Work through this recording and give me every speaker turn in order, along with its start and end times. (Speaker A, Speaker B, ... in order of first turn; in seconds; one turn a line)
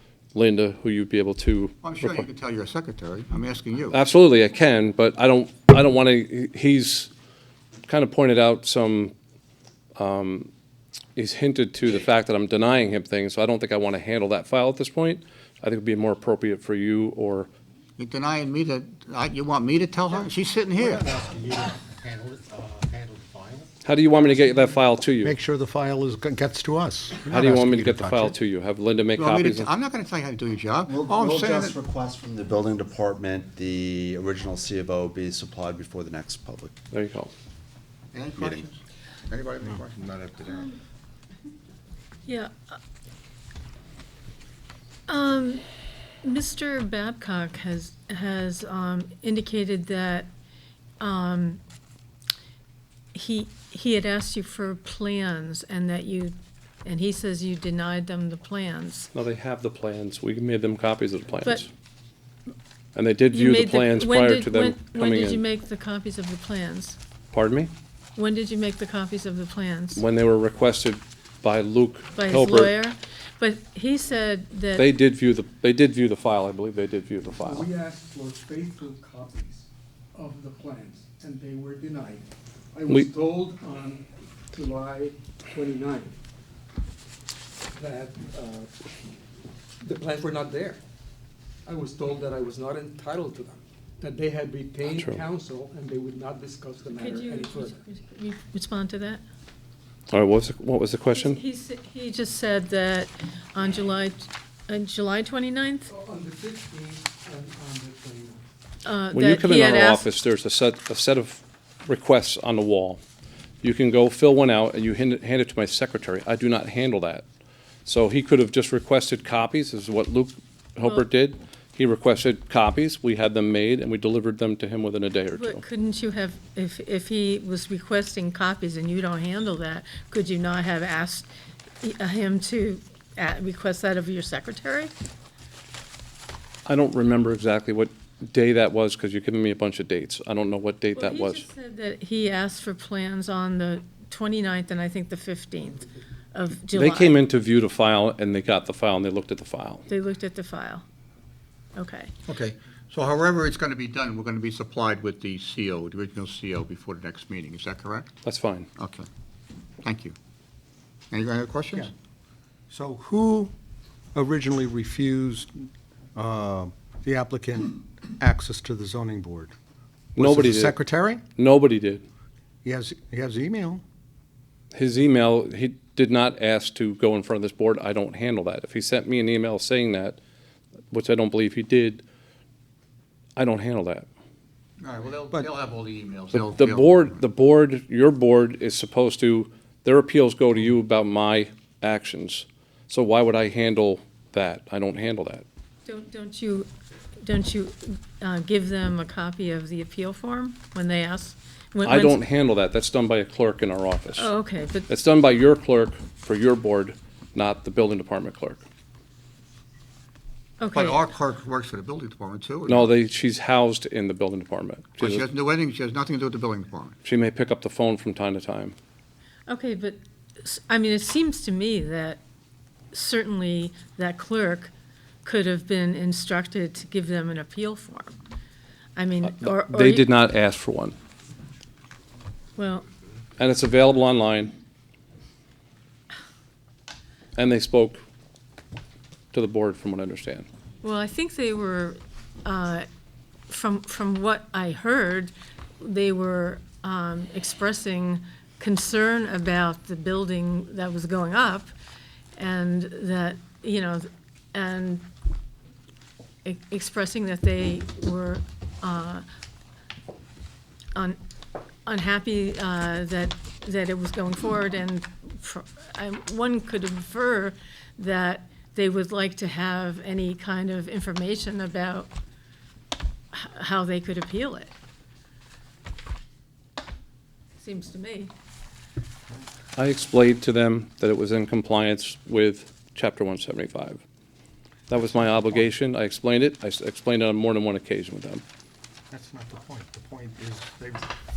Speaker A: 0.3-2.2
Speaker B: 1.8-4.0
Speaker A: 3.9-7.1
Speaker A: 7.9-9.1
Speaker A: 10.0-10.5
Speaker A: 11.2-17.5
Speaker B: 18.0-21.1
Speaker C: 20.1-23.7
Speaker A: 23.8-25.3
Speaker C: 25.2-28.4
Speaker A: 27.3-29.7
Speaker B: 29.2-31.8
Speaker D: 30.9-36.8
Speaker A: 36.9-37.3
Speaker B: 38.1-40.8
Speaker D: 38.3-38.7
Speaker E: 45.1-45.6
Speaker E: 46.2-50.3
Speaker E: 51.0-51.6
Speaker E: 53.1-59.1
Speaker A: 59.1-61.7
Speaker A: 63.0-65.4
Speaker E: 63.3-67.0
Speaker A: 67.3-67.7
Speaker E: 68.2-70.0
Speaker A: 70.0-72.7
Speaker E: 72.2-74.9
Speaker A: 74.8-77.7
Speaker F: 77.4-86.2
Speaker F: 87.7-88.7
Speaker F: 89.8-90.8
Speaker F: 91.7-97.8
Speaker E: 97.0-99.2
Speaker A: 100.1-101.4
Speaker E: 101.1-105.9
Speaker F: 105.9-108.5
Speaker E: 108.8-110.1
Speaker A: 109.1-113.0
Speaker A: 113.6-117.2
Speaker A: 117.8-125.6
Speaker E: 125.4-131.3
Speaker E: 131.8-134.9
Speaker A: 136.7-141.5
Speaker E: 141.0-147.2
Speaker A: 146.7-149.9
Speaker E: 149.9-150.8
Speaker E: 151.8-152.2
Speaker B: 152.3-158.2
Speaker A: 158.2-158.7
Speaker B: 158.8-159.1
Speaker B: 159.8-160.2
Speaker B: 161.1-161.9
Speaker C: 162.7-163.5
Speaker C: 164.1-165.5
Speaker C: 166.2-169.5
Speaker A: 170.2-170.8
Speaker C: 170.2-171.2
Speaker A: 171.4-172.1
Speaker C: 172.6-173.8
Speaker A: 174.7-180.2
Speaker A: 180.9-182.0
Speaker A: 183.4-184.1
Speaker B: 184.8-187.2
Speaker A: 186.3-195.4
Speaker E: 195.9-196.7
Speaker E: 197.2-202.2
Speaker A: 201.8-204.3
Speaker E: 204.2-204.9
Speaker A: 204.9-208.6
Speaker E: 210.6-211.0
Speaker B: 210.7-212.9
Speaker A: 212.7-215.3
Speaker B: 215.0-217.0
Speaker A: 217.0-218.8
Speaker E: 219.5-222.2
Speaker E: 222.9-224.7
Speaker E: 225.2-228.2
Speaker E: 229.0-230.1
Speaker A: 229.3-230.9
Speaker E: 232.6-232.9
Speaker A: 233.4-234.5
Speaker A: 237.4-238.0
Speaker A: 239.3-240.5
Speaker E: 240.8-242.9
Speaker E: 243.5-251.7
Speaker E: 252.4-255.1
Speaker E: 256.4-259.2
Speaker E: 261.9-272.1
Speaker E: 273.3-274.7
Speaker E: 277.6-278.3
Speaker A: 279.8-284.0
Speaker A: 284.9-288.4
Speaker C: 285.0-285.6
Speaker C: 289.1-291.1